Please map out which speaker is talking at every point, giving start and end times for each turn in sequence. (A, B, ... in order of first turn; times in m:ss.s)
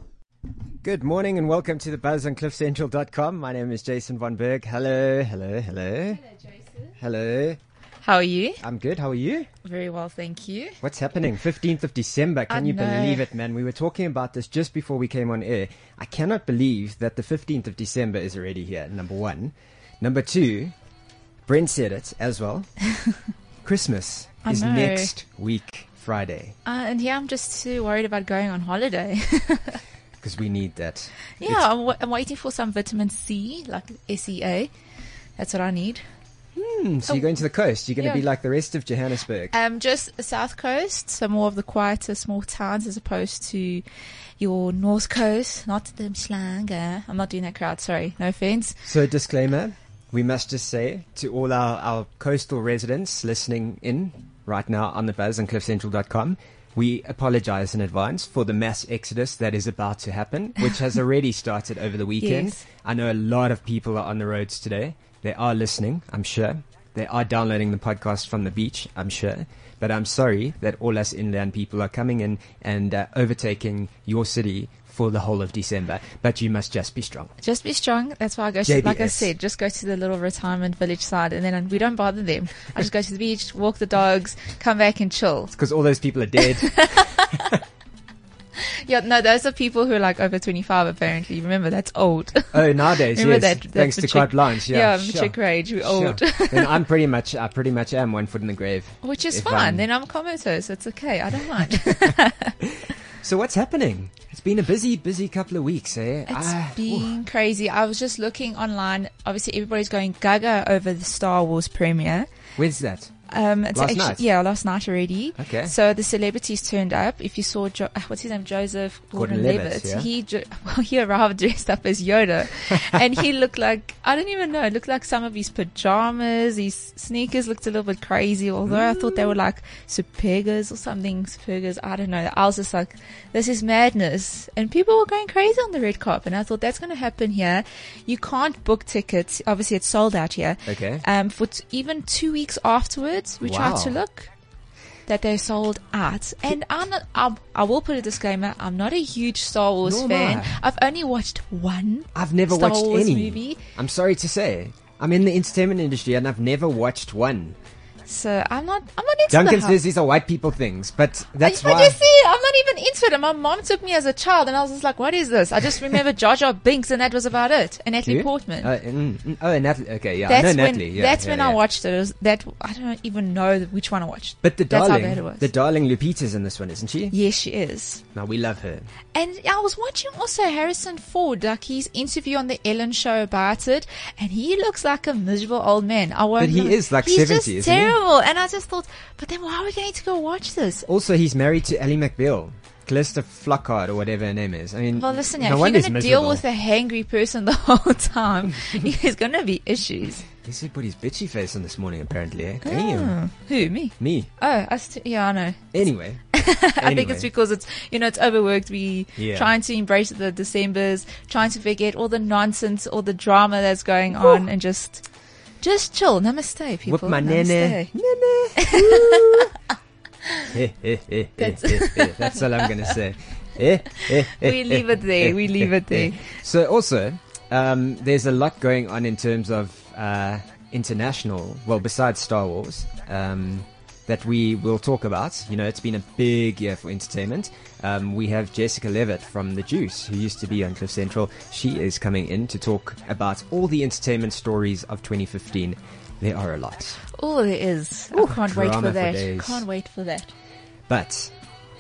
0:00.8-0:06.2 A
0:07.0-0:07.6 A
0:08.0-0:08.6 B
0:08.6-0:09.5 A
0:09.6-0:10.8 B
0:10.8-0:20.7 A
0:12.5-0:13.2 B
0:21.4-0:22.7 A
0:23.6-0:26.6 A
0:24.5-0:25.1 B
0:26.6-0:29.8 B
0:30.2-0:31.7 A
0:31.4-0:34.7 B
0:35.4-0:36.0 B
0:36.5-0:39.5 A
0:37.1-0:37.4 B
0:38.0-0:38.2 B
0:39.5-0:43.8 B
0:44.4-0:48.8 B
0:48.8-1:17.3 A
1:02.2-1:02.6 B
1:17.4-1:25.5 B
1:18.6-1:19.3 A
1:25.5-1:27.1 A
1:26.4-1:27.5 B
1:28.6-1:36.8 B
1:32.5-1:39.8 A
1:39.0-1:42.6 B
1:43.2-1:47.1 A
1:46.3-1:52.3 B
1:52.6-1:53.1 A
1:53.3-2:24.3 B
1:53.7-1:54.2 A
1:55.4-1:55.7 A
1:59.1-2:00.1 A
2:08.6-2:09.4 A
2:20.7-2:21.0 A
2:23.4-2:24.0 A
2:25.1-2:33.6 B
2:29.8-2:30.6 A
2:32.1-2:37.6 A
2:38.0-2:39.8 B
2:39.3-2:42.0 A
2:41.4-2:48.7 B
2:48.0-2:51.6 A
2:50.3-2:55.5 B
2:54.4-2:57.1 A
2:57.1-2:58.0 B
2:58.1-2:58.9 A
2:59.1-3:10.9 B
3:06.4-3:08.0 A
3:10.9-3:16.4 A
3:14.9-3:20.3 B
3:18.5-3:18.8 A
3:20.4-3:23.2 A
3:22.6-3:35.0 B
3:24.0-3:24.3 A
3:25.7-3:26.2 A
3:26.8-3:27.3 A
3:29.2-3:29.5 A
3:34.2-3:34.4 A
3:35.6-3:37.9 B
3:36.8-3:39.5 A
3:38.6-3:39.5 B
3:40.5-4:07.0 A
3:41.4-3:42.8 B
3:44.0-3:46.3 B
4:07.1-4:10.3 B
4:08.1-4:09.6 A
4:10.9-4:11.3 A